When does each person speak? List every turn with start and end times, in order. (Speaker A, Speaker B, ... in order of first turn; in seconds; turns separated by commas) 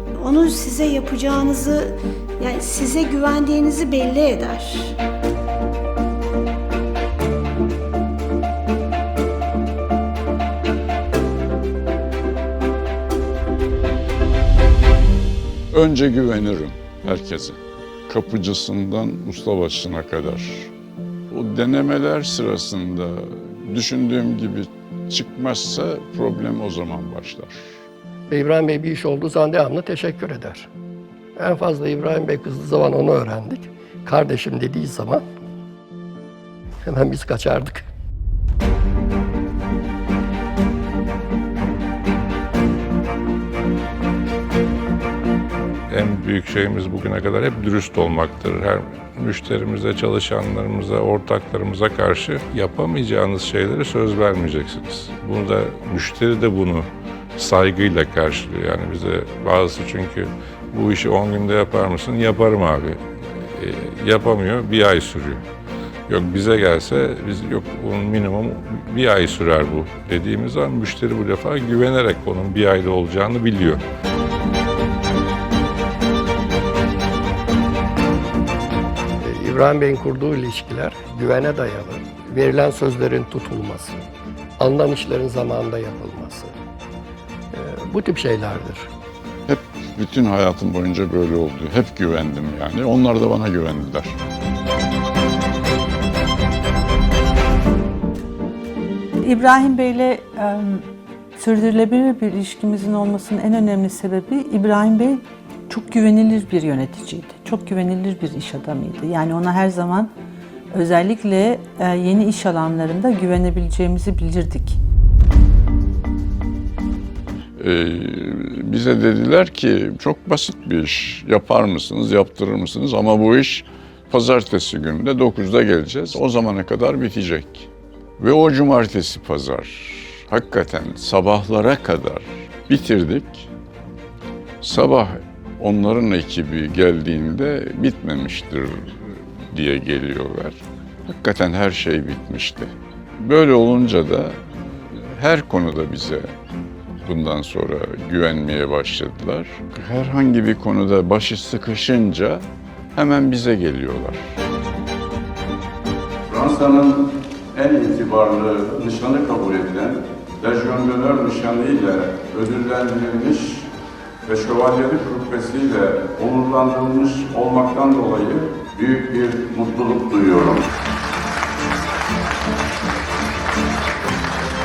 Speaker A: 0.1-5.0, Speaker B: 15.7-20.7, Speaker B: 21.3-27.8, Speaker C: 28.3-30.7, Speaker C: 31.4-35.2, Speaker C: 36.9-37.8, Speaker D: 45.9-65.4, Speaker D: 66.1-73.8, Speaker C: 79.2-84.0, Speaker C: 84.6-86.5, Speaker C: 87.5-88.9, Speaker B: 89.5-94.2, Speaker E: 99.2-110.1, Speaker E: 110.7-114.8, Speaker B: 117.6-133.5, Speaker B: 134.6-146.3, Speaker B: 147.0-154.4, Speaker F: 156.3-163.7, Speaker F: 164.2-170.7